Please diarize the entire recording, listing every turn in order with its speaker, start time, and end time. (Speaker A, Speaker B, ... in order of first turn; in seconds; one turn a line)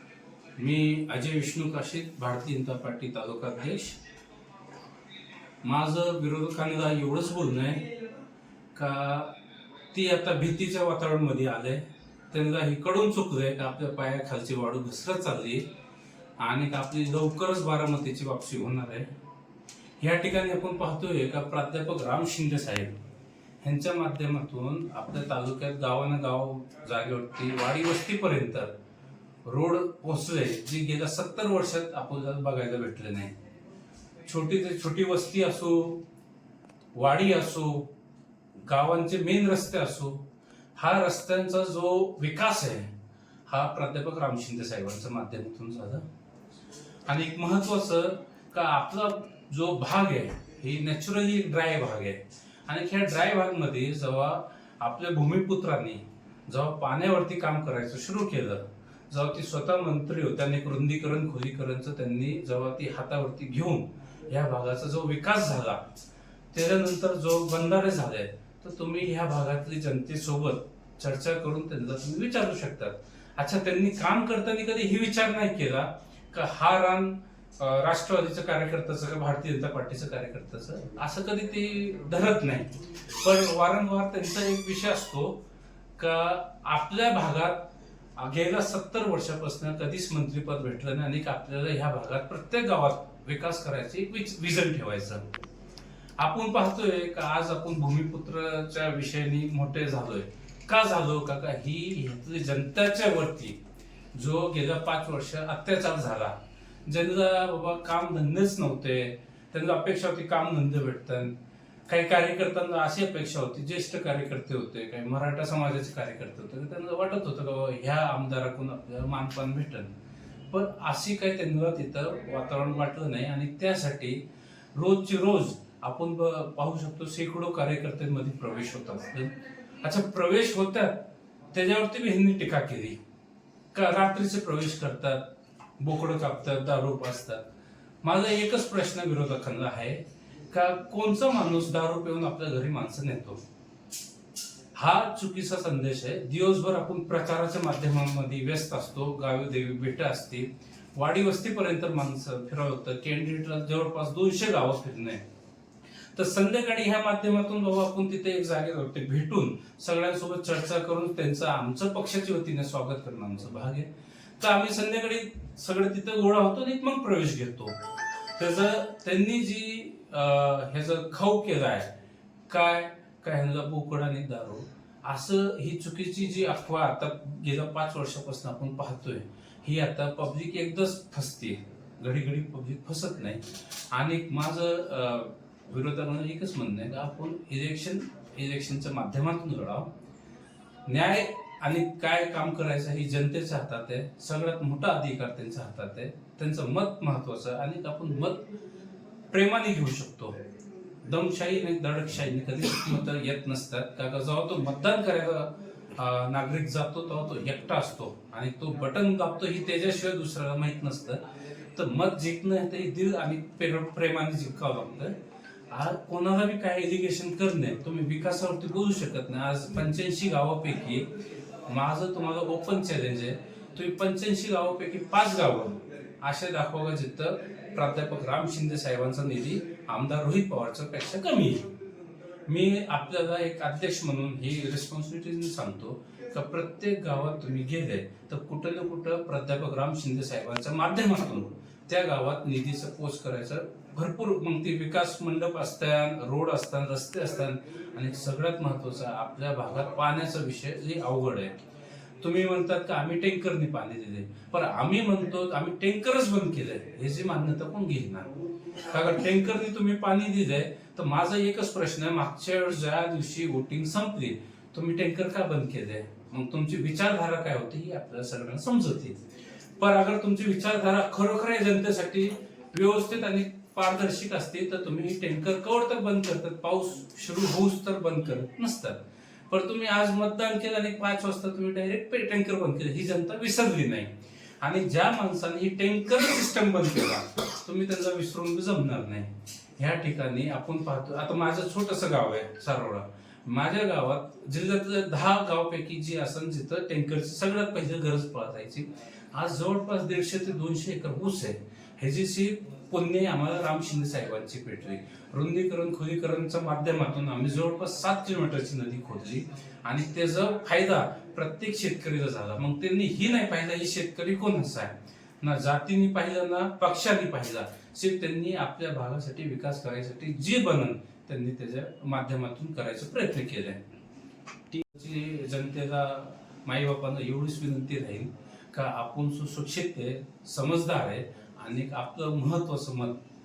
Speaker A: 0.6-4.0
Speaker A: 5.6-8.0
Speaker A: 8.8-9.4
Speaker A: 9.9-15.7
Speaker A: 16.4-19.1
Speaker A: 20.0-23.0
Speaker A: 23.6-28.8
Speaker A: 29.4-33.3
Speaker A: 34.2-36.0
Speaker A: 36.9-37.9
Speaker A: 38.7-43.0
Speaker A: 43.5-46.1
Speaker A: 47.0-65.9
Speaker A: 66.5-85.4
Speaker A: 86.0-95.2
Speaker A: 96.2-103.6
Speaker A: 104.1-106.3
Speaker A: 106.9-111.4
Speaker A: 111.9-119.9
Speaker A: 120.5-124.2
Speaker A: 124.8-133.0
Speaker A: 133.7-135.2
Speaker A: 135.8-137.4
Speaker A: 138.0-143.4
Speaker A: 144.8-155.2
Speaker A: 156.2-171.9
Speaker A: 172.5-189.9
Speaker A: 190.9-198.5
Speaker A: 199.3-200.4
Speaker A: 201.0-215.2
Speaker A: 215.7-221.1
Speaker A: 221.7-231.7
Speaker A: 232.4-251.7
Speaker A: 252.2-269.2
Speaker A: 269.8-323.9
Speaker A: 324.7-333.2